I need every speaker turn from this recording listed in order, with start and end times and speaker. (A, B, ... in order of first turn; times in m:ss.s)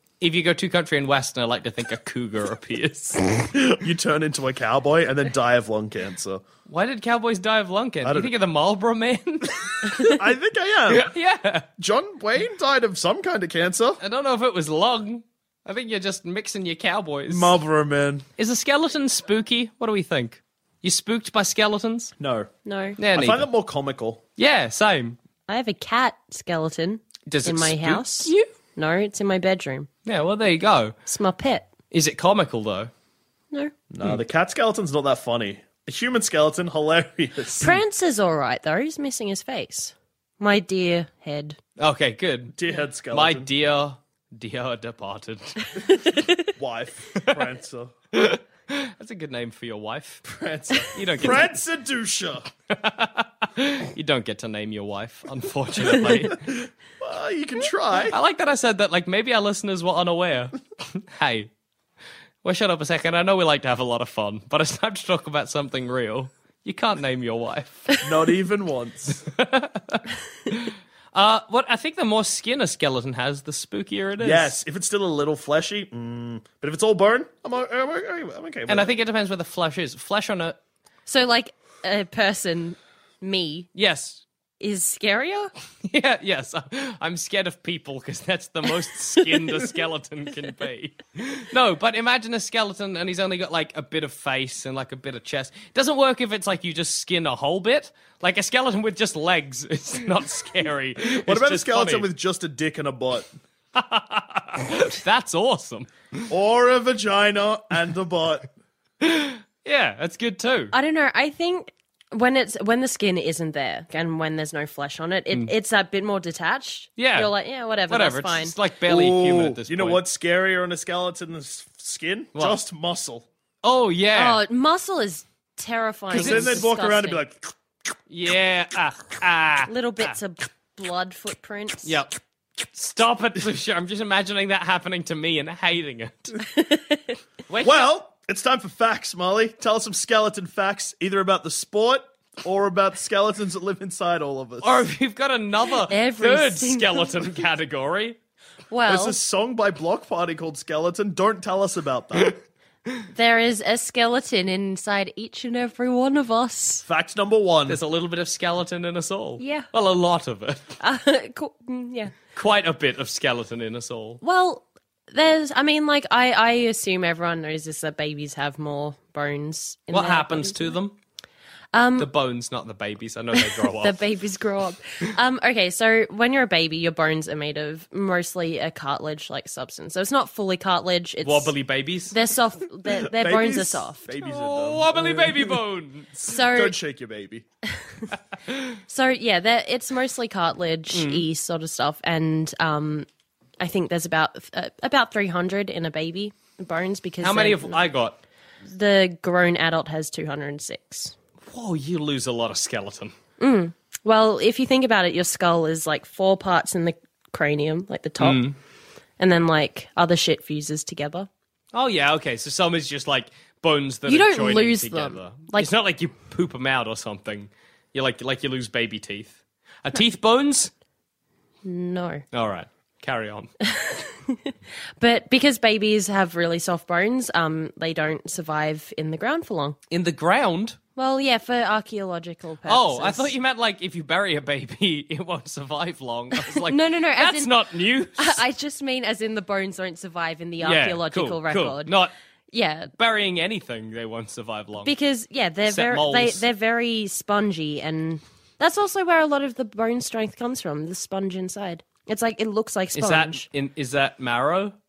0:00.2-0:03.3 A
0:03.5-0:06.4 B
0:06.7-0:10.1 A
0:08.0-0:08.3 B
0:10.0-0:11.1 B
0:10.9-0:11.7 A
0:11.8-0:14.0 B
0:14.0-0:17.6 A
0:17.3-0:18.3 B
0:18.4-0:22.1 A
0:22.2-0:22.5 B
0:22.6-0:23.0 C
0:23.0-0:23.5 A
0:23.1-0:24.2 B
0:24.4-0:25.2 A
0:25.5-0:29.9 C
0:27.3-0:28.5 A
0:30.1-0:31.0 A
0:31.1-0:31.7 C
0:31.9-0:32.9 A
0:33.9-0:37.8 B
0:37.6-0:41.6 C
0:41.8-0:42.6 A
0:42.6-0:43.5 B
0:43.1-0:45.6 A
0:46.6-0:47.9 B
0:48.1-0:50.2 A
0:50.3-0:52.5 B
0:50.9-0:51.5 A
0:52.7-0:56.4 A
0:56.3-0:58.2 B
0:58.0-1:01.5 A
1:02.4-1:07.9 A
1:08.0-1:09.2 B
1:09.3-1:14.6 A
1:14.2-1:18.9 B
1:18.7-1:20.6 A
1:21.1-1:23.7 C
1:23.8-1:24.2 A
1:24.6-1:25.5 C
1:25.9-1:42.1 A
1:41.2-1:43.3 B
1:43.8-1:46.2 A
1:46.3-1:48.5 B
1:49.0-1:50.7 A
1:50.7-1:58.6 C
1:57.0-1:57.3 A
1:57.9-2:00.0 A
1:58.9-2:03.3 B
2:02.4-2:02.6 A
2:03.6-2:04.4 A
2:04.1-2:07.2 C
2:06.1-2:07.5 B
2:06.1-2:06.6 A
2:08.1-2:10.1 A
2:09.7-2:12.0 C
2:11.8-2:12.2 A
2:12.7-2:16.4 A
2:16.4-2:17.2 C
2:17.5-2:17.9 A
2:17.6-2:24.8 B
2:24.6-2:28.2 A
2:25.8-2:27.2 C
2:28.7-2:29.2 C
2:28.9-2:32.4 B
2:33.1-2:36.8 C
2:36.9-2:37.8 B
2:37.7-2:40.7 A
2:39.4-2:39.7 C
2:40.8-2:42.2 C
2:42.3-2:44.2 A
2:44.2-2:50.7 C
2:49.9-2:51.0 A
2:51.7-2:52.1 C
2:52.0-2:54.0 A
2:53.5-3:01.5 C
3:01.2-3:02.2 A
3:02.1-3:04.0 C
3:03.1-3:05.6 B
3:04.2-3:06.4 A
3:06.2-3:06.8 C
3:06.5-3:07.5 B
3:08.9-3:13.1 C
3:10.9-3:11.2 A
3:13.6-3:17.9 C
3:17.2-3:18.2 A
3:18.7-3:21.1 C
3:21.5-3:23.1 A
3:23.4-3:28.4 C
3:28.2-3:28.6 A
3:29.2-3:31.3 C
3:31.7-3:40.7 A
3:34.1-3:35.7 C
3:41.6-3:42.2 C
3:42.3-3:43.5 A
3:43.7-3:49.8 C
3:49.9-3:50.8 A
3:51.0-3:53.3 C
3:52.7-3:58.4 A
3:56.4-4:02.0 C
4:00.6-4:02.1 A
4:02.5-4:02.9 C
4:03.0-4:04.9 A
4:04.8-4:13.5 C
4:05.6-4:06.4 A
4:13.0-4:14.8 A